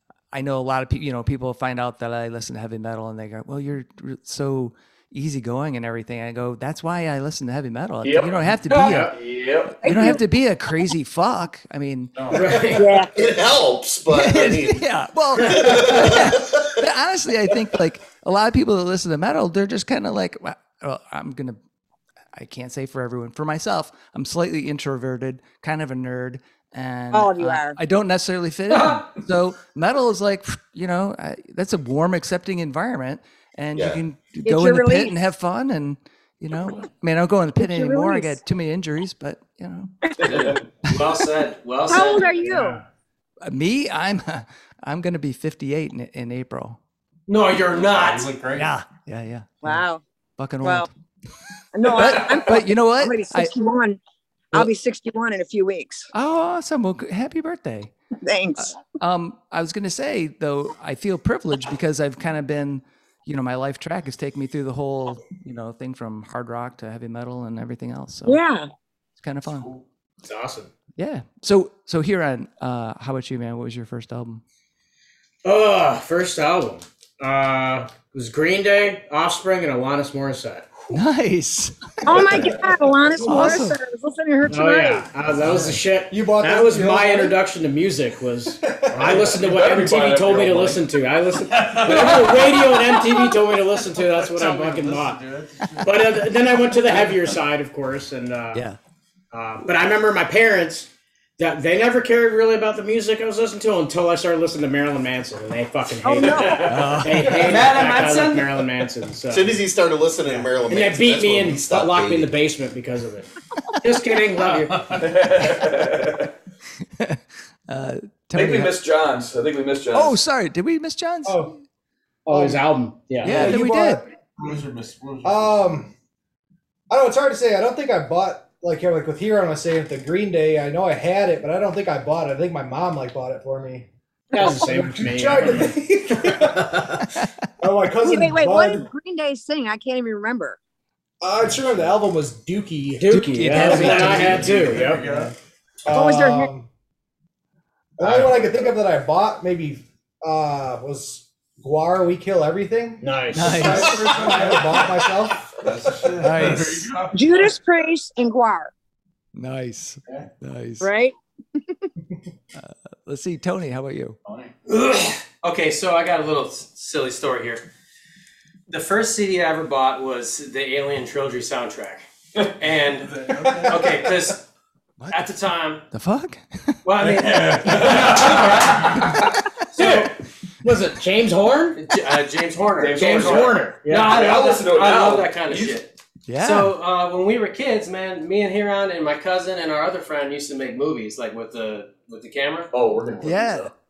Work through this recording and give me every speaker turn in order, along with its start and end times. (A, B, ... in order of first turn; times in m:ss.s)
0:00.3-0:09.1 A
0:08.0-0:08.3 B
0:08.8-0:09.1 C
0:09.1-0:09.7 B
0:09.8-0:12.2 A
0:09.8-0:10.2 D
0:12.2-0:12.7 E
0:12.3-0:13.0 C
0:12.7-0:13.1 D
0:13.1-0:16.8 F
0:14.1-0:21.6 A
0:22.3-0:39.9 A
0:27.1-0:27.8 D
0:33.7-0:34.0 F
0:34.4-0:35.2 D
0:37.6-0:38.4 D
0:40.2-0:42.6 C
0:41.9-0:42.8 D
0:42.5-0:42.8 E
0:43.4-0:46.8 A
0:47.3-0:48.3 C
0:47.6-0:48.7 E
0:48.5-0:49.8 A
0:49.6-0:50.0 D
0:50.4-0:50.9 A
0:50.6-0:50.9 D
0:51.7-0:54.0 D
0:51.9-0:53.5 A
0:54.5-0:56.1 D
0:56.1-0:57.9 A
0:58.2-0:58.8 D
0:58.6-1:08.4 A
1:08.2-1:08.7 D
1:09.2-1:09.7 A
1:10.2-1:10.7 G
1:11.0-1:14.4 A
1:15.4-1:20.7 G
1:20.9-1:22.5 A
1:22.0-1:25.1 D
1:23.2-1:23.8 A
1:24.5-1:35.2 G
1:26.1-1:27.4 H
1:28.6-1:29.4 H
1:29.3-1:30.8 B
1:31.4-1:32.8 E
1:34.0-1:36.2 E
1:35.8-1:38.6 G
1:36.9-1:37.2 E
1:38.5-1:38.8 A
1:39.3-1:49.5 G
1:46.0-1:46.7 D
1:46.6-1:47.3 A
1:47.4-1:48.5 C
1:49.3-1:52.3 F
1:50.2-1:53.3 G
1:53.8-1:54.7 G
1:53.9-1:54.3 C
1:54.4-1:55.1 E
1:55.0-1:56.3 B
1:57.0-1:58.7 A
1:58.3-2:00.2 B
1:59.9-2:01.6 A
2:01.2-2:01.5 H
2:02.3-2:02.7 H
2:02.3-2:03.5 G
2:03.2-2:04.0 H
2:03.2-2:04.0 A
2:04.4-2:05.7 E
2:05.2-2:05.9 H
2:06.9-2:17.0 H
2:14.3-2:15.7 G
2:17.6-2:18.8 H
2:18.0-2:20.6 D
2:21.2-2:24.4 H
2:23.0-2:25.1 G
2:23.1-2:25.3 A
2:23.8-2:25.3 E
2:25.8-2:26.7 H
2:25.9-2:26.5 D
2:28.0-2:36.2 H
2:28.0-2:28.7 E
2:33.0-2:34.5 G
2:33.3-2:34.2 A
2:34.0-2:37.6 E
2:36.2-2:36.9 A
2:37.1-2:38.7 D
2:39.3-2:40.9 A
2:40.8-2:41.1 D
2:42.6-2:44.2 A
2:44.2-2:44.5 E
2:44.7-2:47.7 C
2:48.7-2:52.1 C
2:52.6-2:54.5 C
2:53.0-2:53.8 E
2:53.4-2:53.8 H
2:55.0-2:55.2 A
2:55.1-2:55.8 C
2:55.9-2:56.8 A
2:56.8-2:59.2 C
2:57.0-2:59.0 E
2:59.7-3:00.1 C
3:00.6-3:01.8 G
3:01.7-3:12.7 C
3:02.8-3:05.8 B
3:03.0-3:04.2 G
3:06.3-3:06.8 A
3:12.7-3:13.7 B
3:13.2-3:13.7 A